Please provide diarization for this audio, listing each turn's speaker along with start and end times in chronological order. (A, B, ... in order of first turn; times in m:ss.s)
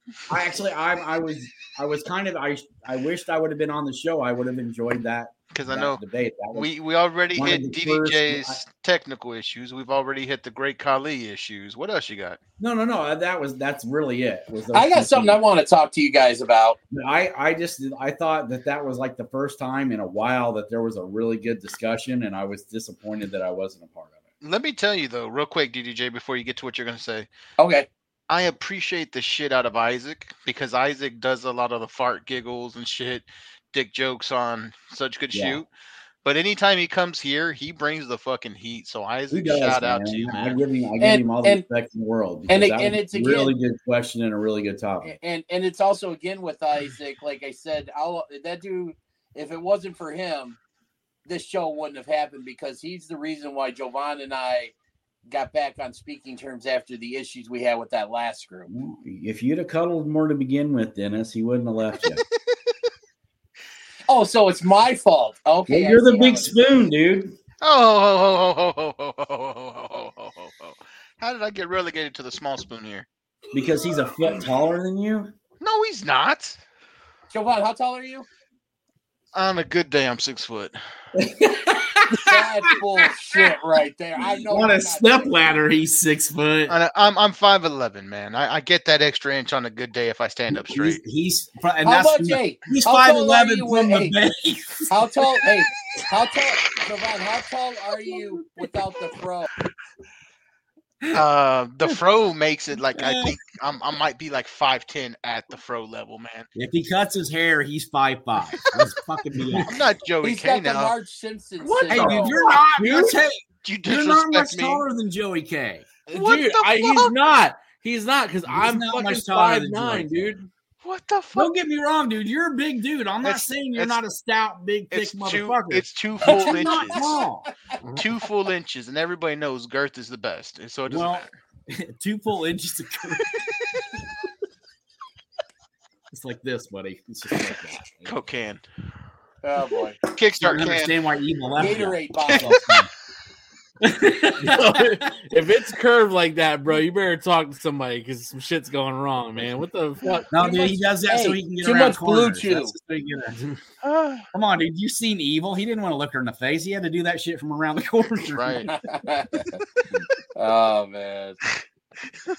0:00.3-0:06.7 A
0:05.5-0:06.0 B
0:06.5-0:12.4 B
0:07.3-0:08.6 A
0:12.6-0:15.4 A
0:14.7-0:16.8 C
0:16.9-0:24.2 A
0:24.4-0:27.3 B
0:27.6-0:27.9 C
0:28.3-0:35.7 B
0:35.3-0:35.6 A
0:36.2-0:40.6 B
0:39.3-0:45.2 A
0:41.0-0:41.6 C
0:42.5-0:43.5 C
0:45.0-0:50.6 C
0:51.3-0:54.7 C
0:55.3-0:58.7 C
0:58.7-1:02.2 A
1:04.1-1:06.5 C
1:05.7-1:07.4 A
1:07.6-1:13.1 B
1:13.5-1:15.3 A
1:15.6-1:16.6 B
1:17.3-1:18.3 C
1:19.3-1:20.8 B
1:21.1-1:22.5 A
1:22.2-1:25.4 C
1:24.2-1:26.7 A
1:26.7-1:31.0 B
1:30.5-1:35.4 A
1:31.8-1:34.2 C
1:34.9-1:39.5 C
1:41.1-1:46.5 B
1:43.0-1:43.3 A
1:46.6-1:49.7 A
1:48.6-1:48.9 B
1:49.6-1:51.0 B
1:50.2-1:52.4 C
1:51.6-1:53.1 B
1:51.9-1:55.9 A
1:53.6-1:54.8 B
1:56.1-2:00.5 D
1:56.1-1:57.1 B
1:58.5-2:00.4 A
2:00.8-2:01.5 B
2:01.3-2:07.4 A
2:03.2-2:04.0 B
2:04.9-2:07.2 B
2:06.3-2:07.3 C
2:08.0-2:11.3 B
2:10.9-2:13.3 A
2:16.1-2:18.1 A
2:18.0-2:18.6 B
2:19.4-2:20.0 C
2:20.1-2:20.9 B
2:20.4-2:22.9 A
2:21.6-2:22.6 C
2:22.3-2:22.7 B
2:23.8-2:24.9 A
2:24.4-2:30.3 D
2:30.3-2:33.4 A
2:30.3-2:32.7 C
2:33.8-2:34.2 B
2:34.3-2:38.7 A
2:38.3-2:38.7 B
2:38.7-2:39.6 C
2:40.4-2:41.4 C